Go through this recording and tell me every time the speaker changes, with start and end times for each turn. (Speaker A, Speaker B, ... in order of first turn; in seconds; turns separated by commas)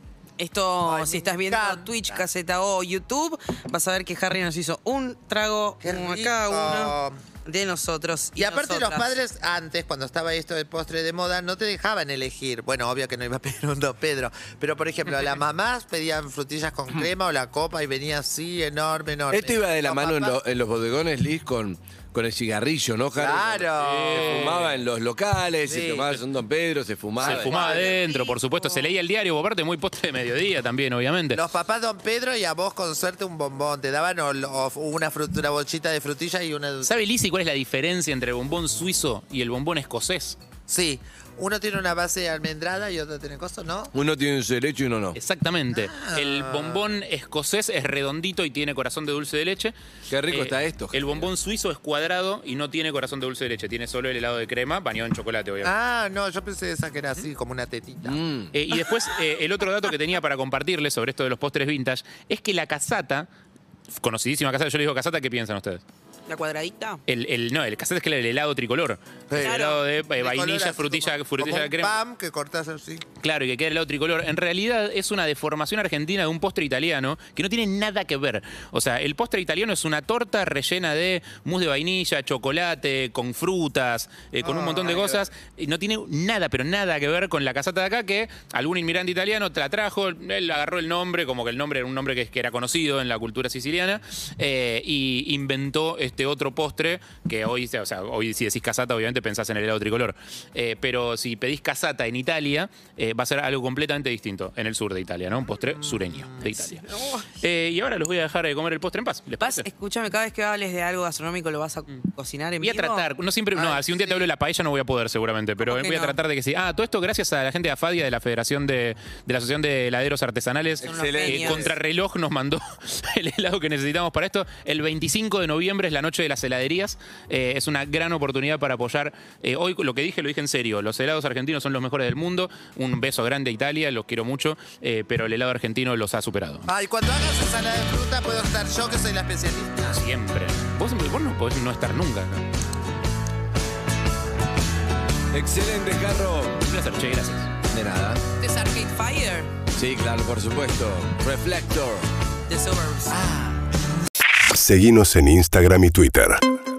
Speaker A: 0.4-9.2, Speaker B: 0.8-2.3, Speaker B: 5.8-7.2, Speaker B: 8.4-20.4, Speaker C: 19.3-27.7, Speaker B: 23.2-24.6, Speaker D: 23.8-24.8, Speaker B: 25.7-26.2, Speaker B: 27.2-28.1, Speaker D: 27.2-31.4, Speaker A: 27.4-28.9, Speaker B: 31.3-36.9, Speaker D: 36.8-40.4, Speaker B: 40.7-43.9, Speaker C: 43.9-45.2, Speaker D: 45.1-49.8, Speaker B: 45.7-46.9, Speaker C: 50.1-51.3, Speaker D: 50.3-55.7, Speaker B: 55.6-58.2, Speaker C: 58.0-58.5, Speaker D: 58.5-63.3, Speaker D: 63.9-65.8, Speaker A: 66.3-67.0, Speaker D: 67.1-72.0, Speaker B: 69.3-73.0, Speaker A: 69.4-69.8, Speaker D: 73.2-106.8, Speaker C: 84.5-85.1, Speaker B: 84.7-85.0, Speaker B: 105.6-106.6, Speaker A: 106.9-107.3, Speaker D: 107.4-109.7, Speaker A: 109.4-113.1, Speaker D: 112.6-136.7, Speaker B: 113.5-114.3, Speaker A: 115.6-116.2, Speaker C: 120.8-121.7, Speaker A: 120.8-121.7, Speaker B: 136.7-140.0, Speaker D: 139.9-142.5, Speaker C: 145.3-146.6, Speaker D: 146.6-147.5, Speaker C: 147.7-148.2, Speaker A: 148.4-149.5, Speaker C: 149.7-152.1, Speaker A: 152.5-153.5, Speaker E: 154.5-156.4